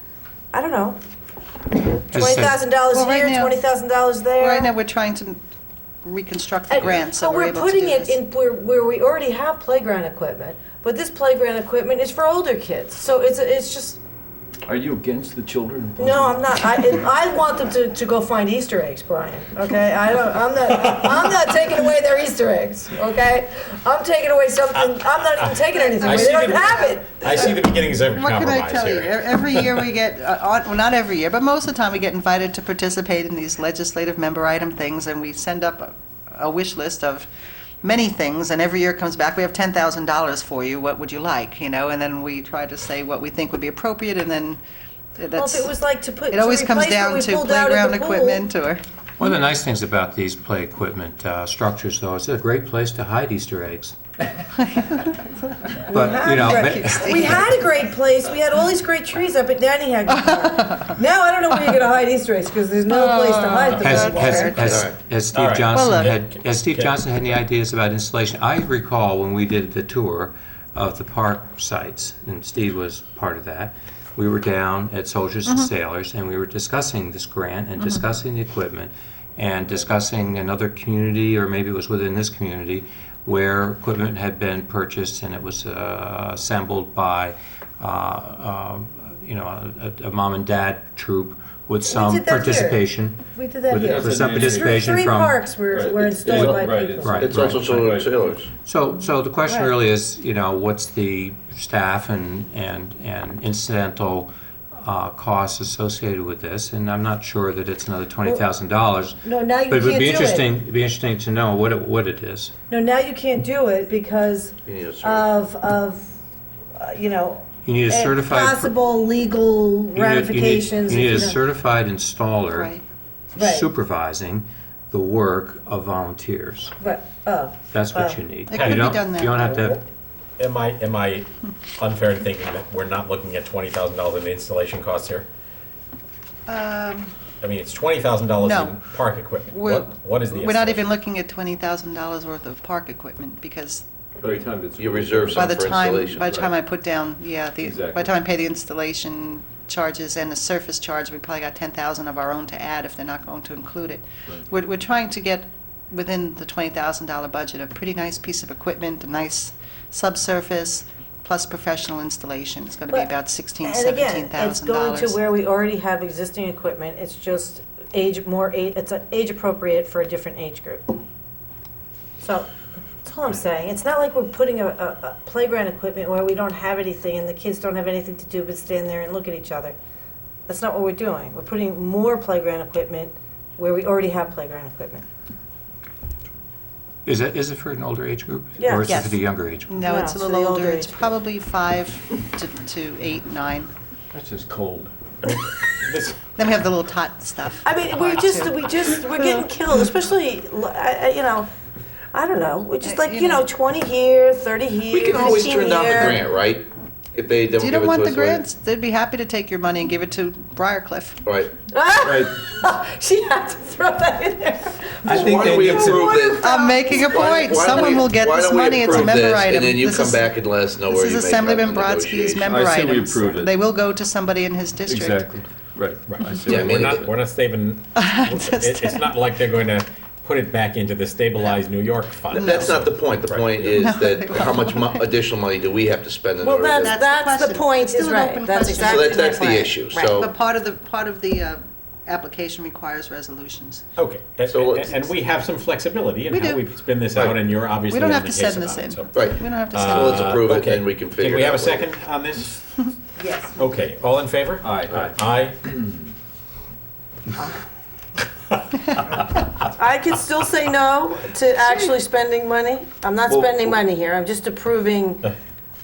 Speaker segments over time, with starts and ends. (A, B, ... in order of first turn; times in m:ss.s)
0:00.5-0:01.0 A
0:02.0-0:04.7 A
0:02.1-0:02.6 B
0:02.9-0:03.6 C
0:04.4-0:05.4 C
0:06.0-0:08.2 C
0:06.7-0:14.0 A
0:14.6-0:16.4 D
0:16.0-0:27.5 A
0:25.7-0:27.3 C
0:26.0-0:29.6 E
0:28.1-0:37.3 C
0:37.8-0:44.6 C
0:45.2-0:45.7 C
0:45.4-0:48.4 A
0:46.3-0:48.8 C
0:49.2-0:54.0 B
0:54.6-0:55.1 C
0:55.8-0:57.3 B
0:55.9-1:04.8 A
0:56.2-0:57.5 C
1:02.9-1:04.7 C
1:03.8-1:35.4 B
1:04.6-1:04.9 F
1:05.3-1:07.0 E
1:05.7-1:06.1 C
1:15.4-1:15.7 C
1:31.8-1:32.8 A
1:33.3-1:37.3 A
1:33.8-1:34.7 D
1:35.7-1:38.1 D
1:36.2-1:37.8 B
1:36.2-1:38.5 F
1:38.6-1:52.5 B
1:39.5-1:39.7 A
1:49.2-1:50.5 A
1:52.7-1:56.1 A
1:54.6-1:55.3 F
1:56.8-2:01.4 A
1:57.6-1:58.6 B
1:59.9-2:02.7 B
2:02.5-2:02.8 C
2:03.3-2:06.7 B
2:03.4-2:03.7 A
2:06.8-2:08.2 A
2:07.7-2:09.8 B
2:08.5-2:09.6 C
2:10.4-2:15.3 E
2:16.5-2:17.1 C
2:17.4-2:20.9 E
2:18.4-2:18.8 C
2:19.5-2:23.8 C
2:24.2-2:25.6 D
2:24.8-2:26.3 F
2:25.3-2:45.2 C
2:26.1-2:26.5 D
2:27.6-2:28.1 D
2:43.6-2:50.9 A
2:52.2-2:52.5 A
2:53.0-2:59.8 A
3:00.5-3:05.0 A
3:07.0-3:09.8 B
3:08.6-3:08.9 A
3:08.8-3:13.7 C
3:09.8-3:11.1 A
3:14.1-3:14.9 D
3:15.2-3:16.2 E
3:16.4-3:18.7 C
3:17.6-3:21.5 A
3:22.1-3:26.2 A
3:22.8-3:23.4 C
3:24.9-3:28.4 F
3:27.5-3:31.2 C
3:31.2-3:31.5 F
3:31.7-3:37.7 A
3:35.0-3:42.6 F
3:35.1-3:36.1 D
3:36.2-3:40.3 C
3:38.8-3:39.2 D
3:40.8-3:45.3 C
3:42.4-3:43.5 D
3:44.8-3:47.0 D
3:46.1-3:53.8 E
3:46.4-3:47.1 F
3:48.0-3:49.1 C
3:52.3-3:52.7 C
3:52.3-3:57.0 F
3:53.7-3:55.1 C
3:56.4-4:00.1 A
3:56.8-4:03.8 C
3:58.8-4:00.3 F
4:04.0-4:12.9 E
4:04.5-4:05.0 F
4:06.3-4:06.7 C
4:07.9-4:10.1 C
4:09.1-4:11.9 F
4:13.2-4:13.6 A
4:13.6-4:15.6 E
4:14.6-4:15.1 D
4:19.6-4:25.3 A
4:23.3-4:23.6 D